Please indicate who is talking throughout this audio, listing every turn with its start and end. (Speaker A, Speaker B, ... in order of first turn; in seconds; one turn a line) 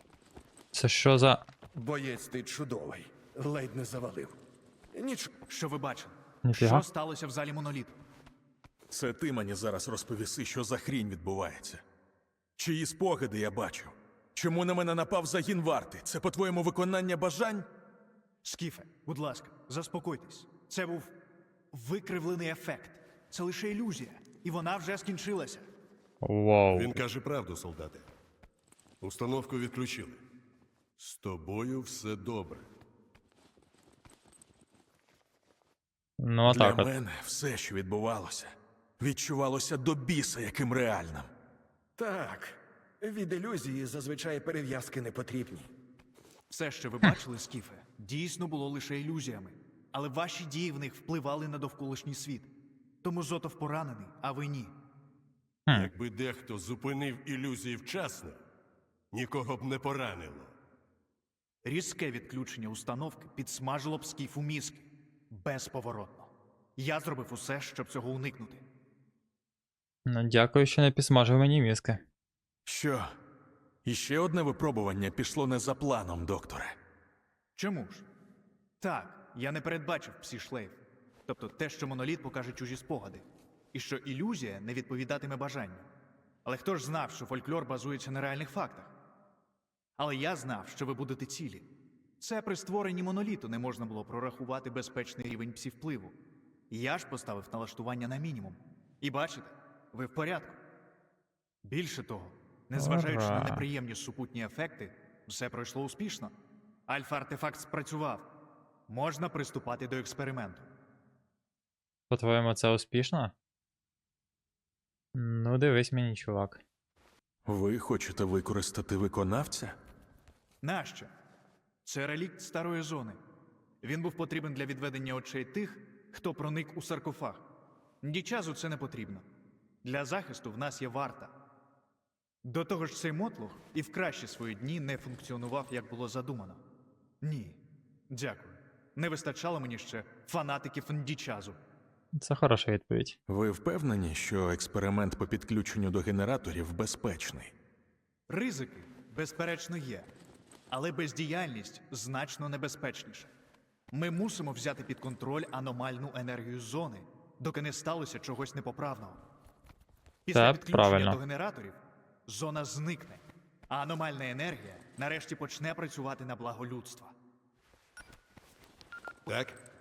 Speaker A: 0.7-1.4
Speaker B: 1.7-4.4
Speaker B: 4.9-5.3
Speaker C: 5.5-8.0
Speaker A: 6.4-6.8
Speaker D: 8.9-11.8
Speaker D: 12.6-17.7
Speaker C: 18.4-21.1
Speaker C: 21.7-25.7
Speaker A: 26.2-27.0
Speaker E: 26.7-28.1
Speaker E: 29.0-30.2
Speaker E: 31.0-32.7
Speaker A: 36.2-36.9
Speaker D: 36.5-41.3
Speaker B: 42.0-45.7
Speaker C: 46.5-52.5
Speaker C: 53.0-54.7
Speaker E: 55.7-58.4
Speaker E: 59.1-60.5
Speaker C: 61.6-68.6
Speaker A: 70.1-72.0
Speaker D: 72.7-73.2
Speaker D: 73.8-76.8
Speaker C: 77.6-78.1
Speaker C: 78.8-85.9
Speaker C: 86.5-88.9
Speaker C: 90.0-91.7
Speaker C: 92.2-96.2
Speaker C: 96.7-100.6
Speaker C: 101.7-106.3
Speaker A: 102.8-103.6
Speaker C: 106.9-108.3
Speaker C: 108.9-110.7
Speaker A: 112.1-113.3
Speaker A: 115.2-116.6
Speaker D: 117.5-119.8
Speaker C: 120.6-121.1
Speaker C: 121.8-123.2
Speaker C: 123.8-127.5
Speaker C: 128.0-129.3
Speaker C: 129.8-131.3
Speaker C: 132.4-136.6
Speaker C: 137.2-137.6
Speaker C: 138.1-141.6
Speaker A: 142.2-143.2
Speaker D: 143.3-147.5
Speaker C: 148.3-150.1
Speaker C: 150.7-153.3
Speaker C: 153.9-159.2
Speaker C: 160.3-167.2
Speaker A: 160.3-161.2
Speaker E: 169.3-169.6